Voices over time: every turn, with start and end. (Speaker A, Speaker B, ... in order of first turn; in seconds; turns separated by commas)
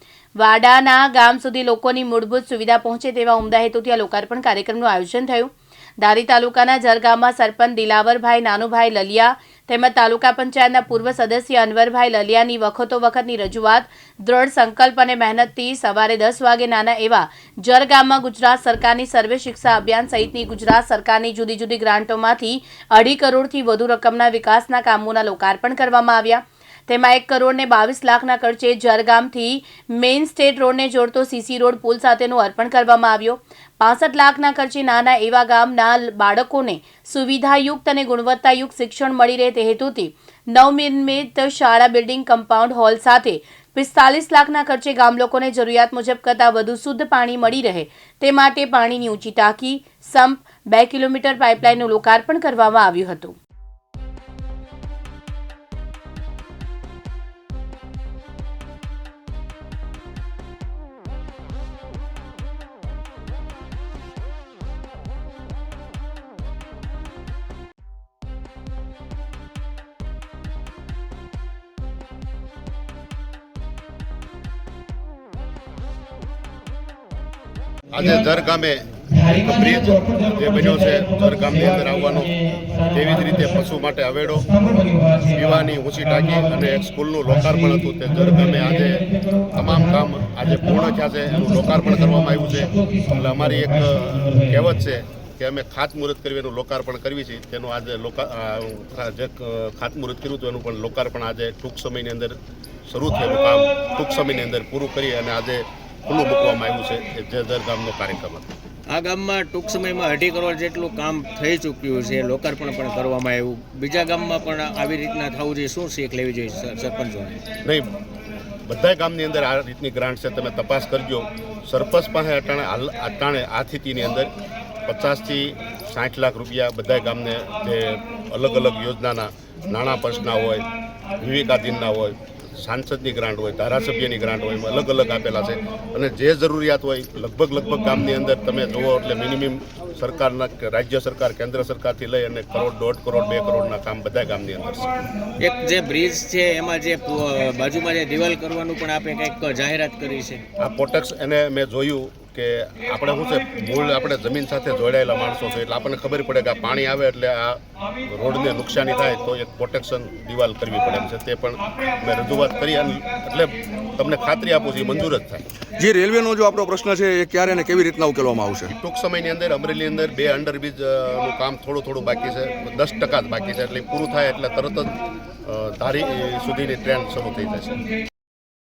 Speaker A: 0.4-53.4, Speaker B: 77.9-102.4, Speaker B: 102.9-108.5, Speaker C: 108.9-117.4, Speaker B: 117.6-117.9, Speaker B: 118.7-124.3, Speaker B: 124.9-130.7, Speaker B: 131.2-144.9, Speaker C: 145.4-150.4, Speaker B: 150.6-165.4, Speaker D: 165.8-168.7, Speaker B: 168.8-177.8